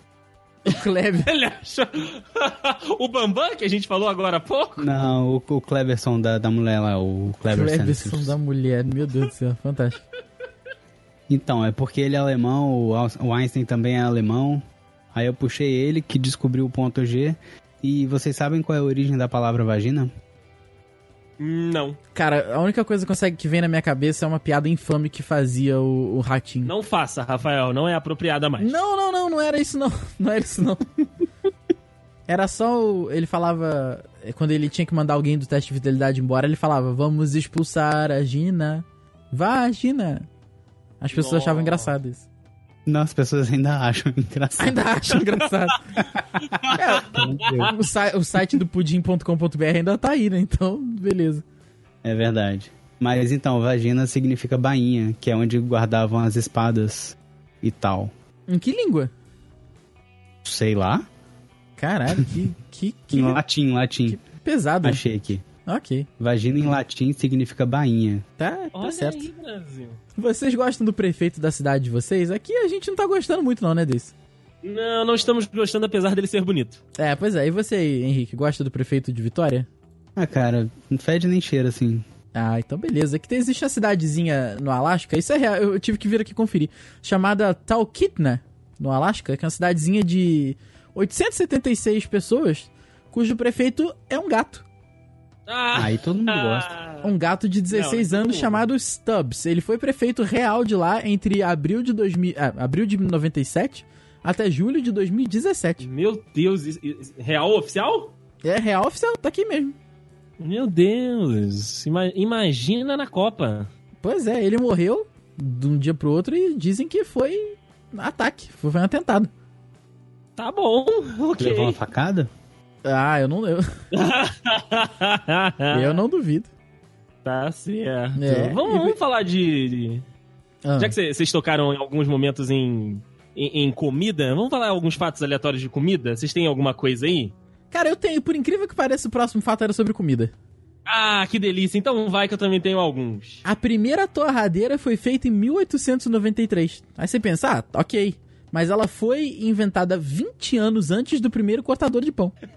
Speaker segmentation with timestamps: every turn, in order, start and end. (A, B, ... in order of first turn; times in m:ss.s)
0:00.6-0:01.3 A
0:01.2-0:04.9 B
0:04.8-0:08.4 C
0:07.5-0:10.0 A
0:11.3-0:20.1 C
0:21.4-0:22.0 B
0:22.2-0:26.7 A
0:26.6-0:28.8 B
0:28.6-0:31.1 A
0:32.3-0:40.3 A
0:41.0-0:42.2 A
0:41.1-0:41.9 B
0:42.9-0:44.8 C
0:44.6-0:45.8 A
0:46.4-0:47.7 B
0:46.8-0:51.4 A
0:47.1-0:47.7 C
0:52.0-0:58.1 C
0:58.5-0:59.1 A
1:00.4-1:01.0 C
1:01.8-1:03.4 A
1:03.1-1:04.2 C
1:04.1-1:05.0 A
1:04.8-1:05.4 C
1:05.7-1:06.1 A
1:06.2-1:08.2 C
1:08.4-1:09.3 A
1:08.7-1:10.0 B
1:10.2-1:14.1 A
1:14.6-1:16.8 B
1:17.0-1:19.7 A
1:20.2-1:22.1 C
1:22.4-1:34.6 A
1:35.5-1:37.1 B
1:35.8-1:36.7 C
1:37.0-1:45.8 A
1:37.7-1:38.6 B
1:45.8-1:48.1 B
1:48.4-1:49.8 A
1:50.4-1:53.7 B
1:54.0-1:59.3 A
2:00.4-2:01.8 B
2:01.4-2:02.3 C
2:02.8-2:03.7 A
2:03.9-2:06.0 B
2:05.7-2:06.5 A
2:07.2-2:10.0 B
2:08.2-2:09.0 A
2:10.6-2:11.0 A
2:10.8-2:17.3 B
2:17.7-2:20.3 A
2:20.9-2:23.4 B
2:23.4-2:32.3 A